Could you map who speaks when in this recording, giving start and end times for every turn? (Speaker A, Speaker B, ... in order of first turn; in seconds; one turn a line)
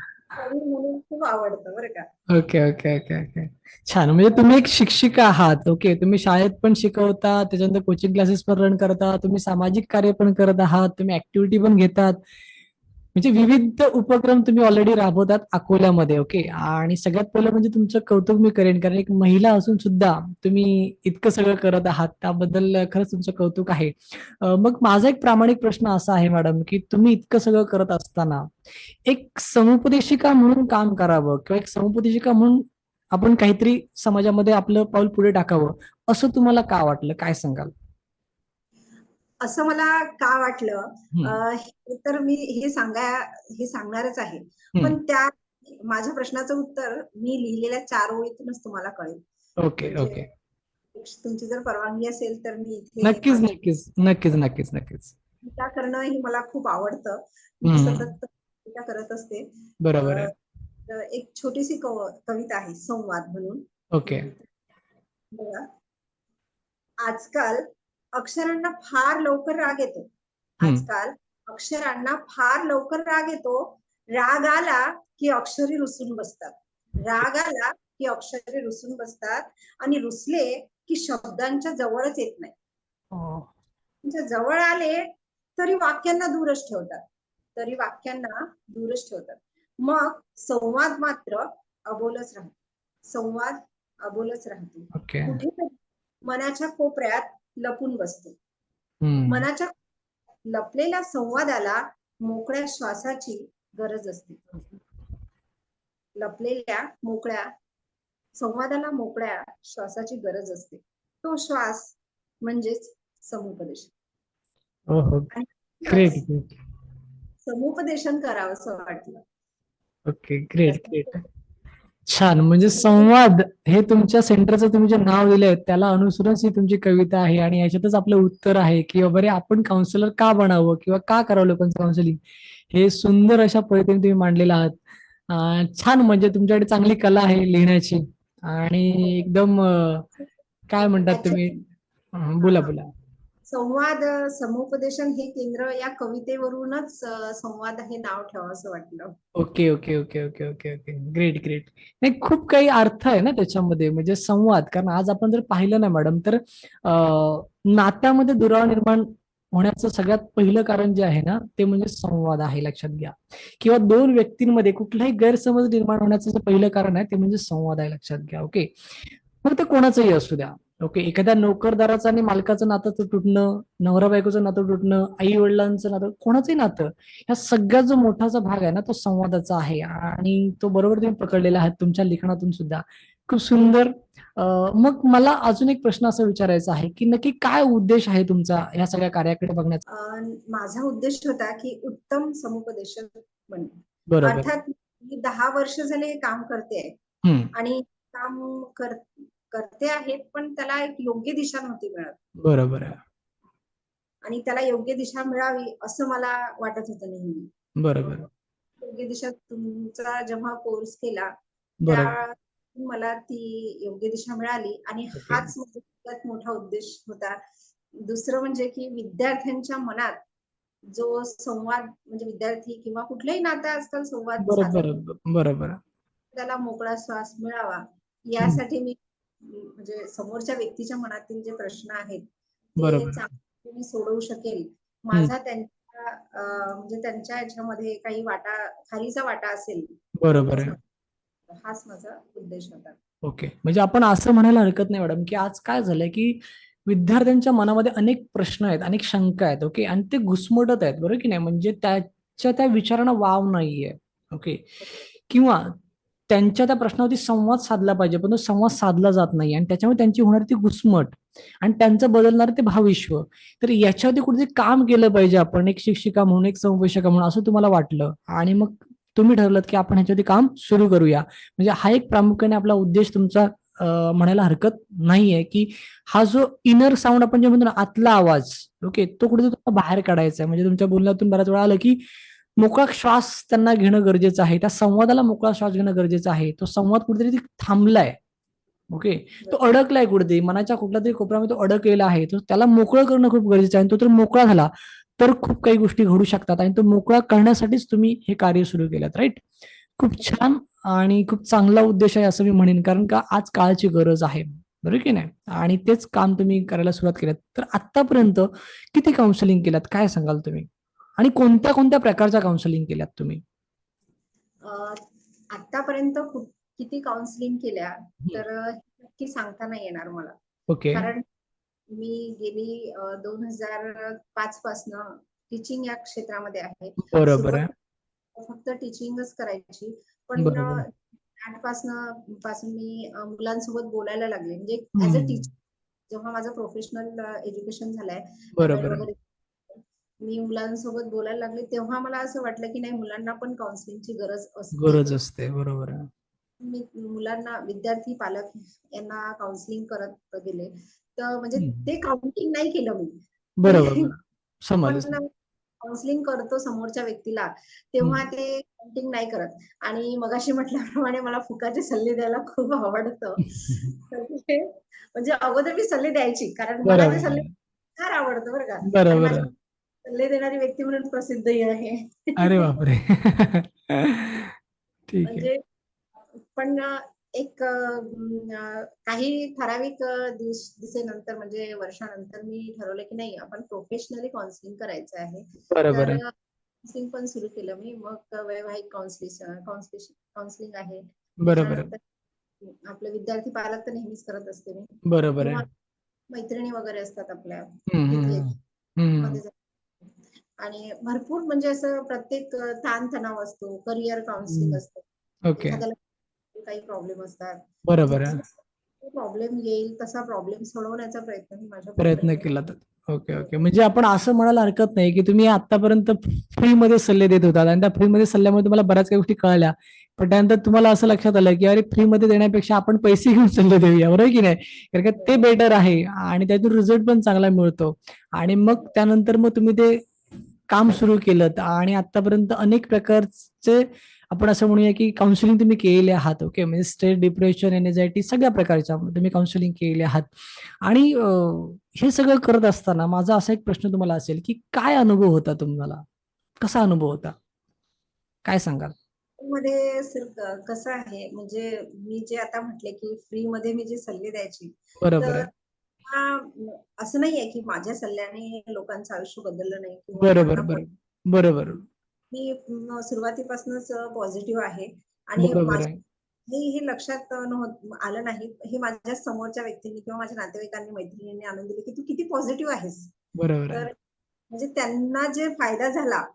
Speaker A: 0.3-2.1
Speaker B: 2.3-12.2
Speaker B: 13.2-28.5
Speaker B: 29.1-37.7
Speaker A: 39.4-49.2
Speaker B: 49.6-50.3
Speaker A: 49.8-50.3
Speaker A: 50.9-53.5
Speaker B: 53.0-55.1
Speaker A: 55.4-59.5
Speaker B: 57.6-58.1
Speaker B: 59.8-60.3
Speaker A: 60.0-60.3
Speaker A: 60.9-64.5
Speaker B: 63.9-64.3
Speaker A: 65.3-65.7
Speaker A: 67.0-67.6
Speaker A: 68.2-70.1
Speaker A: 70.6-82.5
Speaker B: 83.1-83.5
Speaker A: 84.0-87.0
Speaker A: 87.6-92.5
Speaker A: 93.1-98.4
Speaker B: 94.9-95.4
Speaker B: 99.0-99.5
Speaker A: 99.3-99.7
Speaker A: 100.4-104.6
Speaker A: 106.2-107.5
Speaker A: 108.4-113.9
Speaker B: 114.9-115.3
Speaker A: 115.3-116.2
Speaker B: 115.9-116.6
Speaker A: 117.5-119.2
Speaker B: 120.1-121.2
Speaker A: 120.6-121.2
Speaker B: 122.1-140.1
Speaker A: 122.7-123.1
Speaker B: 140.7-141.6
Speaker A: 140.8-141.4
Speaker B: 142.1-142.9
Speaker A: 142.4-142.7
Speaker A: 143.5-149.2
Speaker B: 149.4-189.8
Speaker A: 189.9-196.9
Speaker B: 194.1-194.5
Speaker B: 197.2-197.5
Speaker A: 197.5-202.2
Speaker B: 202.4-203.0
Speaker A: 204.2-207.5
Speaker B: 207.8-208.3
Speaker A: 208.8-211.3
Speaker B: 211.8-212.1
Speaker A: 211.9-217.4
Speaker B: 215.2-215.5
Speaker A: 218.0-220.2
Speaker A: 220.9-224.9
Speaker B: 224.4-225.8
Speaker A: 226.3-232.2
Speaker A: 232.8-240.8
Speaker B: 232.8-233.2
Speaker B: 240.2-240.8
Speaker A: 241.5-243.0
Speaker B: 243.2-255.7
Speaker B: 256.3-282.0
Speaker B: 282.6-288.2
Speaker B: 288.9-299.4
Speaker B: 300.0-313.4
Speaker A: 314.6-320.4
Speaker B: 320.7-321.1
Speaker A: 320.9-321.3
Speaker A: 321.9-327.7
Speaker B: 327.1-327.7
Speaker A: 328.4-335.5
Speaker B: 330.4-330.8
Speaker B: 335.0-335.4
Speaker A: 336.1-345.2
Speaker B: 338.6-339.1
Speaker B: 344.7-346.1
Speaker A: 346.6-354.1
Speaker B: 351.6-351.9
Speaker B: 353.6-355.1
Speaker A: 354.8-355.3
Speaker A: 355.8-367.5
Speaker B: 366.9-367.5
Speaker A: 368.0-369.5
Speaker B: 368.9-369.5
Speaker A: 370.1-372.7
Speaker B: 372.4-374.6
Speaker B: 375.1-375.5
Speaker A: 375.2-375.6
Speaker A: 376.4-386.3
Speaker B: 385.7-386.2
Speaker A: 386.8-392.0
Speaker B: 391.4-391.9
Speaker A: 392.6-395.7
Speaker B: 395.1-395.6
Speaker A: 396.3-398.5
Speaker B: 397.9-399.4
Speaker A: 399.2-406.0
Speaker B: 404.5-404.8
Speaker B: 405.5-405.8
Speaker A: 406.5-412.5
Speaker B: 407.9-408.4
Speaker B: 412.0-430.1
Speaker A: 413.3-413.6
Speaker A: 425.2-425.4
Speaker B: 430.7-446.0
Speaker B: 446.6-447.4
Speaker B: 448.4-448.9
Speaker A: 449.4-455.5
Speaker B: 455.0-455.5
Speaker A: 456.1-460.8
Speaker B: 460.2-461.8
Speaker A: 462.3-465.9
Speaker B: 465.4-466.0
Speaker A: 466.5-473.1
Speaker B: 473.4-473.9
Speaker A: 474.5-476.2